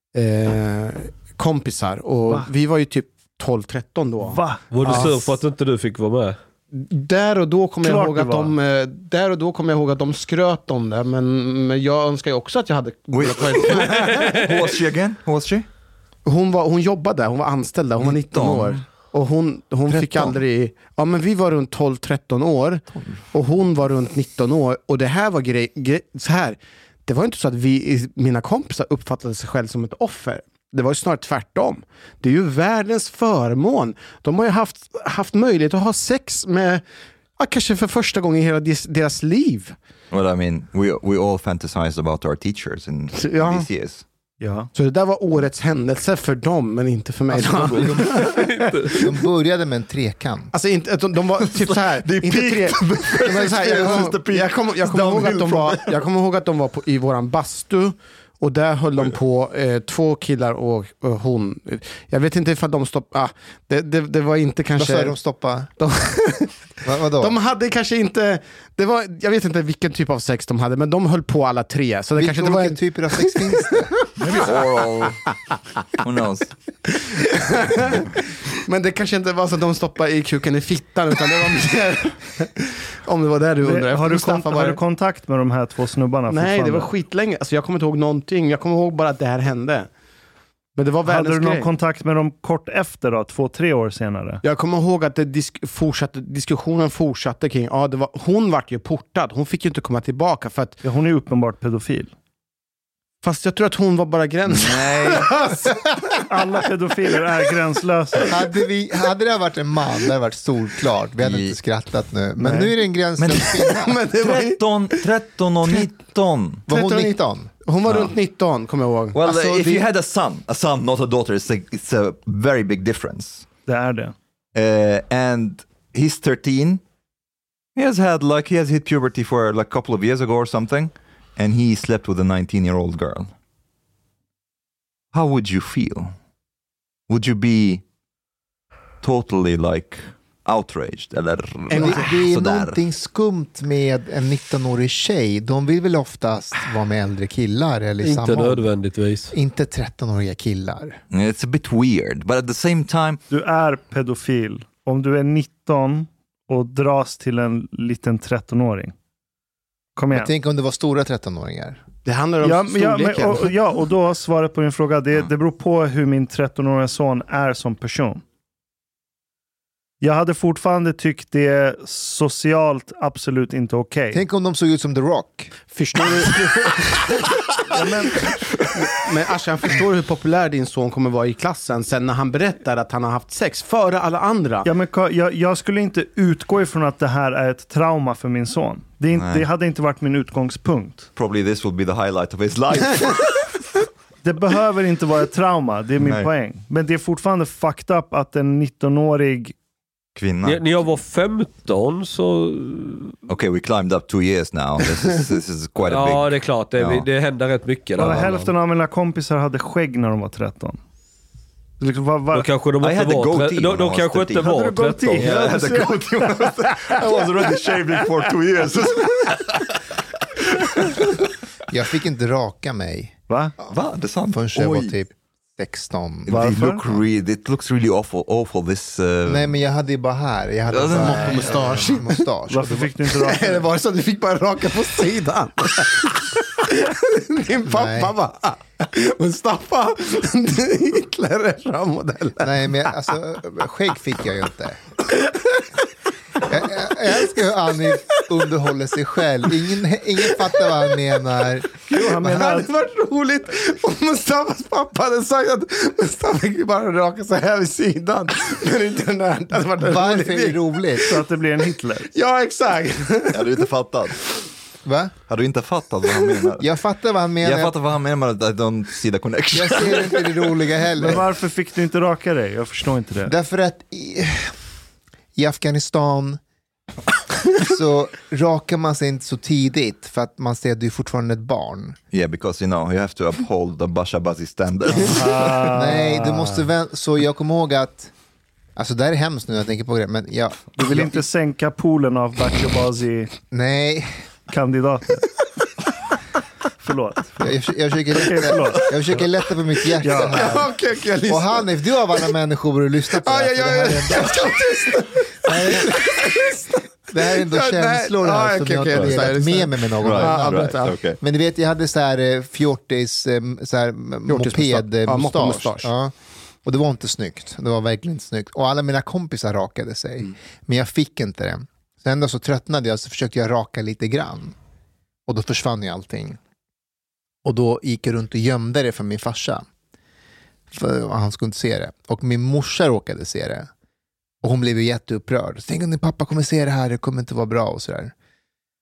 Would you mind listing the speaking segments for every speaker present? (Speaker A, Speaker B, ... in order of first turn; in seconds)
Speaker A: 0.1-5.3, 6.7-14.4, 16.3-36.8, 37.4-39.8, 43.1-43.7, 44.7-49.1, 50.5-65.2, 65.8-66.5, 67.2-73.8, 76.9-84.8, 86.3-89.9, 90.8-91.7, 94.4-100.8, 103.2-106.2, 113.7-115.0, 116.7-119.2, 141.7-142.1, 162.1-163.6, 175.7-184.7, 230.8-232.2, 233.2-242.9, 245.2-245.6, 250.4-250.9, 251.9-261.0, 262.1-263.6, 300.1-301.7, 303.1-311.0, 314.3-315.9
Speaker B: 4.3-5.1, 7.8-8.5, 44.4-44.7, 83.6-86.9, 91.0-94.4, 100.8-102.1, 106.3-108.3, 123.7-124.2, 153.3-158.9, 160.0-160.3, 162.4-168.2, 170.0-174.2, 184.7-191.1, 194.2-199.6, 208.0-210.8, 211.8-212.5, 214.4-216.1, 223.3-223.6, 226.3-226.8, 232.5-233.7, 251.9-252.7, 261.1-262.1, 271.0-273.3, 285.0-286.6, 290.8-293.3, 294.5-295.2, 296.8-297.5, 298.1-299.2, 300.0-300.4
Speaker C: 4.7-6.4, 14.0-14.5, 48.0-48.8, 148.0-149.3, 200.4-203.1, 205.9-208.5, 212.3-215.5
Speaker D: 13.1-15.7, 18.0-18.8, 19.9-20.4, 40.1-44.0, 51.4-56.0, 74.2-75.2, 76.0-76.5, 104.5-105.3, 111.2-111.6, 113.2-113.5, 114.1-116.7, 117.9-118.1, 119.1-123.5, 124.5-126.8, 127.8-133.3, 135.1-136.1, 137.1-137.8, 139.0-142.8, 151.1-153.2, 189.1-189.5, 191.2-193.5, 196.0-196.3, 200.2-200.8, 203.3-207.1, 212.8-214.5, 215.1-219.8, 220.4-221.2, 223.6-225.0, 226.3-229.6, 230.7-231.6, 263.3-264.2, 265.3-266.7, 267.4-270.5, 282.1-285.8, 310.0-311.2
Speaker E: 47.6-50.5, 64.8-65.7, 66.8-67.4, 72.2-74.0, 108.3-114.0, 116.7-117.5, 119.3-119.8, 141.7-148.7, 149.3-151.0, 160.1-161.8, 174.1-175.6, 221.7-223.2, 224.3-226.4, 229.3-233.0, 237.7-238.1, 242.4-244.8, 246.5-251.8, 259.8-261.1, 264.9-265.1, 266.6-267.7, 269.5-271.3, 273.2-274.5, 275.4-276.4, 277.6-282.0, 285.7-288.1, 288.8-291.2, 293.5-294.1, 297.4-300.7, 301.3-304.7, 305.5-306.0, 307.1-316.1, 316.6-324.6, 325.3-326.4, 327.4-329.6, 330.7-333.7, 334.4-338.1